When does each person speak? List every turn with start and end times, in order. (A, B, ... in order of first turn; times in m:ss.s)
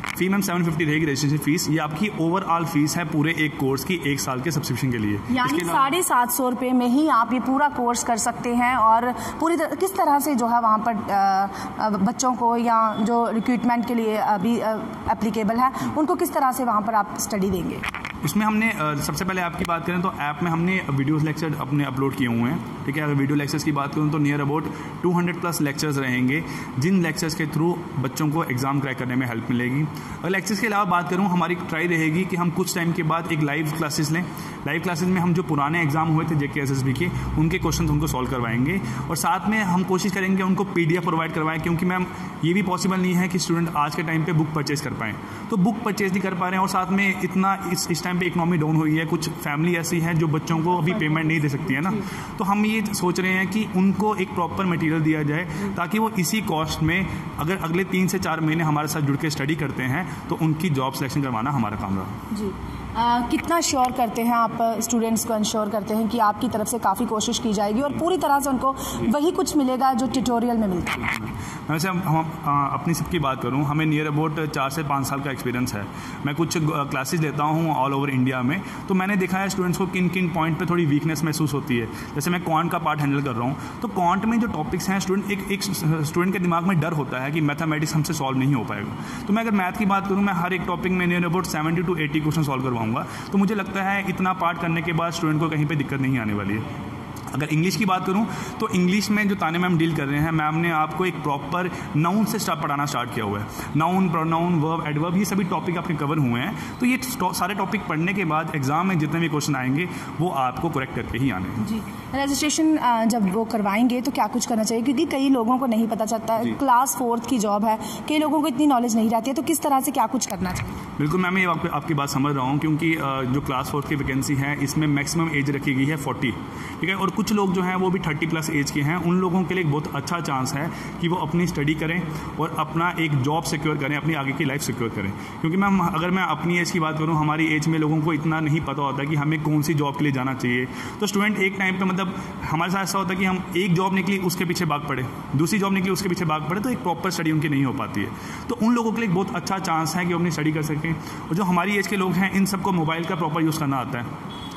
0:00.2-0:05.9 A
0:05.3-0:17.8 B
0:18.2-1:02.1 A
1:02.3-1:11.1 B
1:11.0-1:36.6 A
1:37.3-1:51.6 A
1:51.6-2:00.8 B
2:01.0-2:34.1 A